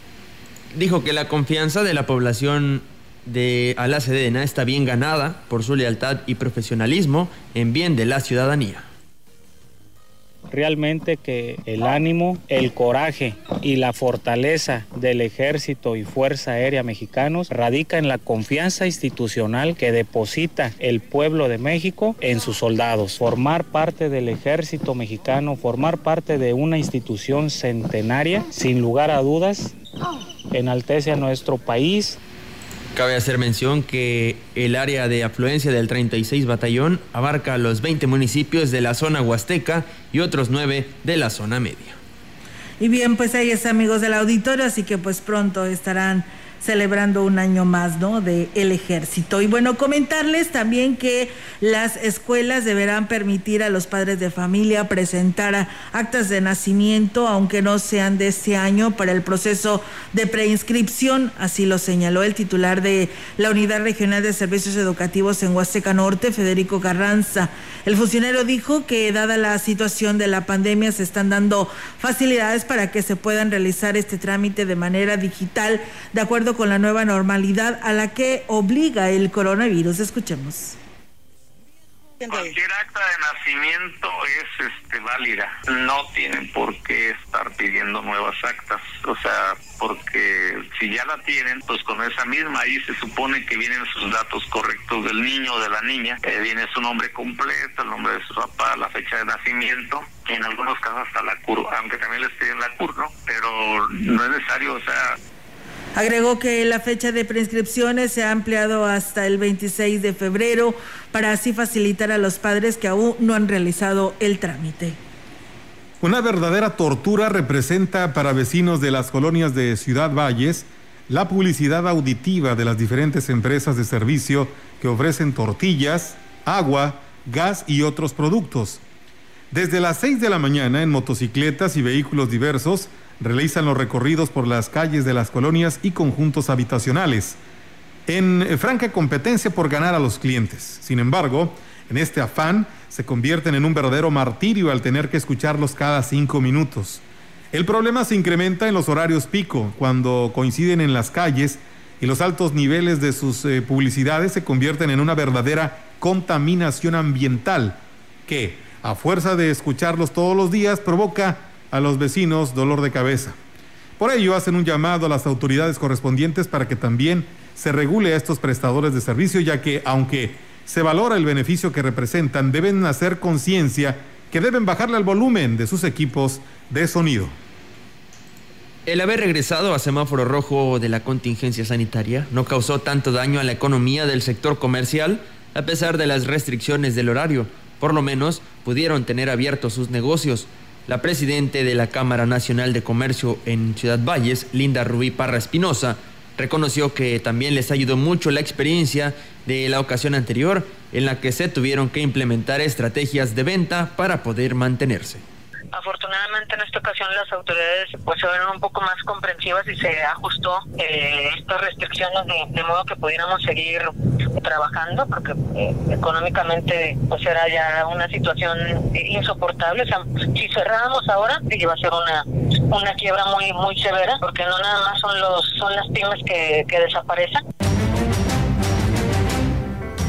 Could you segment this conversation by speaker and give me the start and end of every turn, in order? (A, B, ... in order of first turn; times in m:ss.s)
0:00.7-0:08.9 A
0:10.5-0:29.7 B
0:30.5-0:32.2 B
0:32.9-0:42.0 A
0:42.8-1:20.8 C
1:22.2-1:45.2 D
1:46.0-1:55.0 C
1:56.0-2:08.8 E
2:09.5-2:17.4 E
2:18.1-2:43.4 E
2:44.0-2:57.3 E
2:58.8-3:25.2 A
3:25.7-3:47.4 F